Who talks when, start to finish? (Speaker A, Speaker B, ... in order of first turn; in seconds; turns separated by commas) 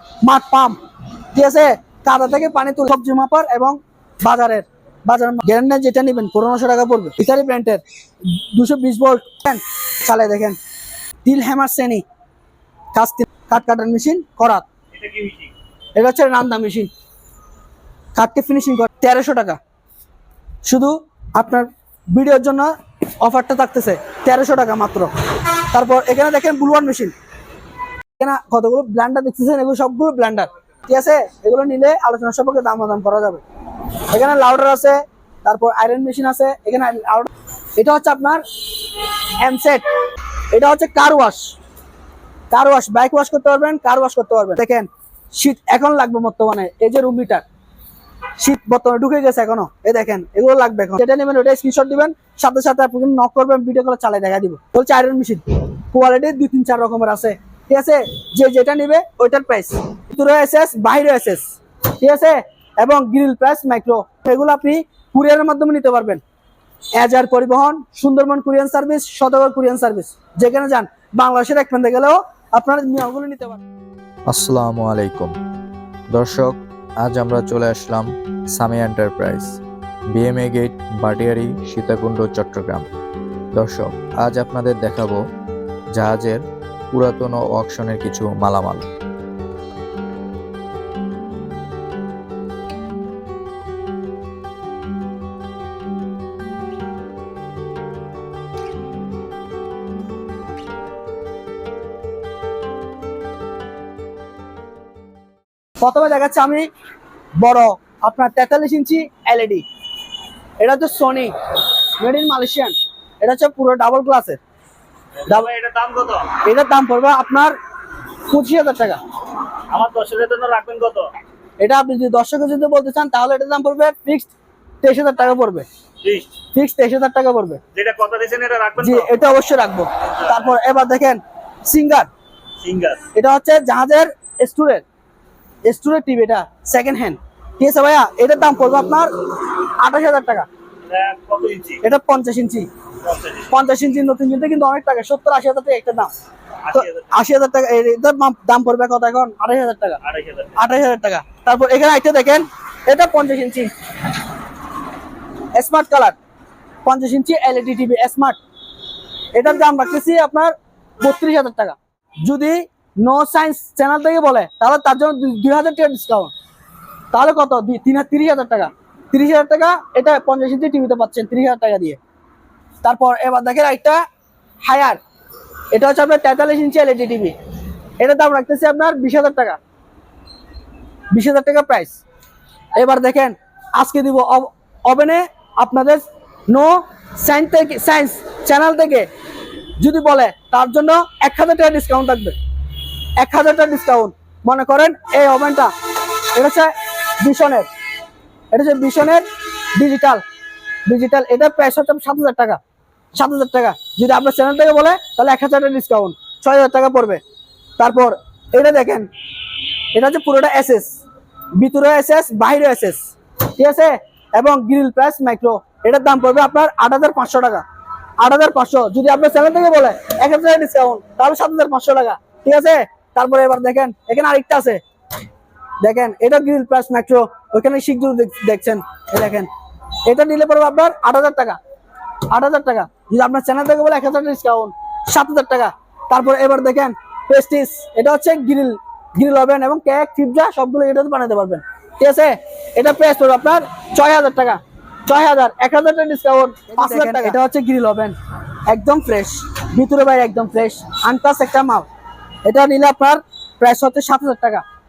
Speaker A: 0.2-0.8, Speaker A: 1.3-7.8, Speaker A: 8.5-10.6, Speaker A: 11.2-12.0, Speaker A: 12.9-14.6, Speaker B: 14.9-15.5, Speaker A: 15.9-16.9, Speaker A: 18.1-19.6, Speaker A: 20.6-22.7, Speaker A: 23.2-25.1, Speaker A: 25.7-27.1, Speaker A: 28.2-33.4, Speaker A: 34.1-38.4, Speaker A: 39.4-39.8, Speaker A: 40.5-41.5, Speaker A: 42.5-47.4, Speaker A: 48.4-61.4, Speaker A: 62.0-66.2, Speaker A: 67.0-73.6, Speaker C: 74.3-75.3, Speaker C: 76.1-79.6, Speaker C: 80.1-82.9, Speaker C: 83.5-85.2, Speaker C: 85.9-88.9, Speaker A: 105.8-106.7, Speaker A: 107.4-109.6, Speaker A: 110.6-111.3, Speaker A: 112.0-114.4, Speaker B: 115.2-116.3, Speaker A: 116.4-117.5, Speaker A: 118.3-119.0, Speaker B: 119.7-121.1, Speaker A: 121.6-125.7, Speaker B: 126.0-126.3, Speaker A: 126.5-127.6, Speaker B: 127.7-129.1, Speaker A: 128.8-132.1, Speaker B: 130.0-130.5, Speaker B: 132.6-133.0, Speaker A: 133.1-134.8, Speaker A: 135.6-140.5, Speaker B: 140.8-141.8, Speaker A: 141.8-142.7, Speaker B: 143.0-143.5, Speaker A: 143.5-146.1, Speaker B: 146.7-147.1, Speaker A: 146.7-150.0, Speaker B: 150.0-150.6, Speaker A: 150.6-153.7, Speaker A: 155.5-156.2, Speaker A: 156.8-158.4, Speaker A: 159.3-166.3, Speaker A: 167.1-172.0, Speaker A: 172.8-174.0, Speaker A: 174.6-175.0, Speaker A: 175.7-177.3, Speaker A: 178.0-179.6, Speaker A: 181.1-182.0, Speaker A: 182.8-189.1, Speaker A: 189.8-192.3, Speaker A: 193.2-195.7, Speaker A: 196.3-197.7, Speaker A: 198.5-199.2, Speaker A: 199.8-200.2, Speaker A: 200.9-202.6, Speaker A: 203.1-207.2, Speaker A: 207.8-209.1, Speaker A: 209.9-211.0, Speaker A: 211.6-213.0, Speaker A: 213.6-217.6, Speaker A: 218.2-224.8, Speaker A: 225.8-229.5, Speaker A: 230.1-231.6, Speaker A: 232.3-248.1, Speaker A: 248.7-251.9, Speaker A: 252.4-254.6